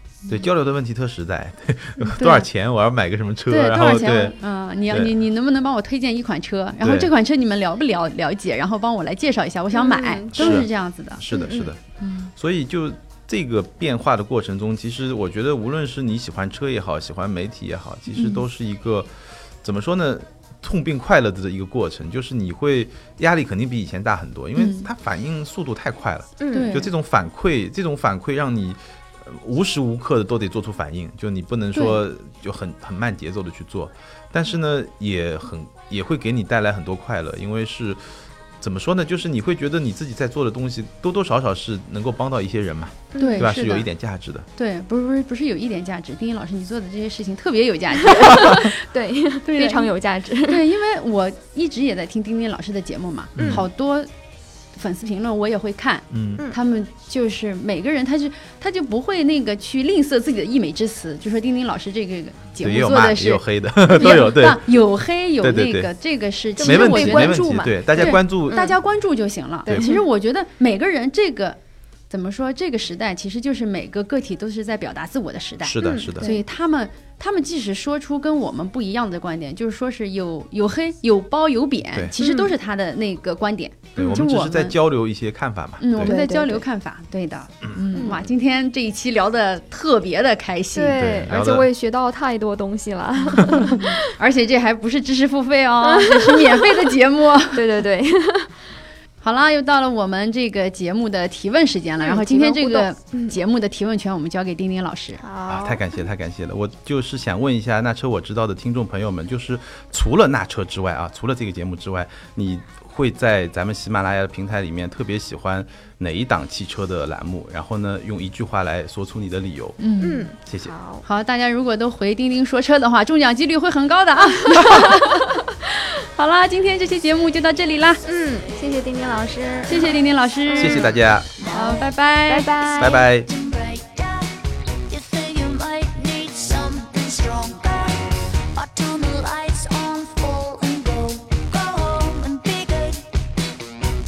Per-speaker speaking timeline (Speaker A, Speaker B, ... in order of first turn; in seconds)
Speaker A: 0.3-4.4, 4.9-5.1, 6.8-7.1, 10.3-11.8, 12.3-44.5, 53.4-53.6, 56.1-56.4, 62.6-64.7, 65.4-65.9, 66.6-68.7, 69.7-69.9, 75.6-76.3, 84.0-86.1, 91.0-91.7, 105.5-119.8, 130.6-131.4, 132.8-133.3
Speaker B: 2.1-2.5, 3.5-11.2, 12.0-12.3, 18.1-18.4, 24.6-24.9, 26.5-26.9, 31.7-32.0, 43.1-43.9, 44.5-48.8, 49.4-49.9, 50.4-54.1, 54.7-71.6, 72.1-84.8, 85.8-91.1, 93.5-97.6, 99.2-105.2, 119.8-120.3, 121.0-128.0, 129.7-132.6
Speaker C: 9.7-10.6, 11.3-11.7, 26.4-26.7, 43.1-43.4, 48.1-50.6, 53.4-53.6, 66.6-68.8, 69.7-70.1, 75.8-76.4, 82.2-82.5, 86.0-86.6, 87.9-88.3, 90.7-94.0, 95.8-96.9, 97.5-98.5, 102.0-103.4, 105.2-106.0, 120.0-121.0, 124.5-124.9, 128.0-133.0
Speaker D: 132.8-143.5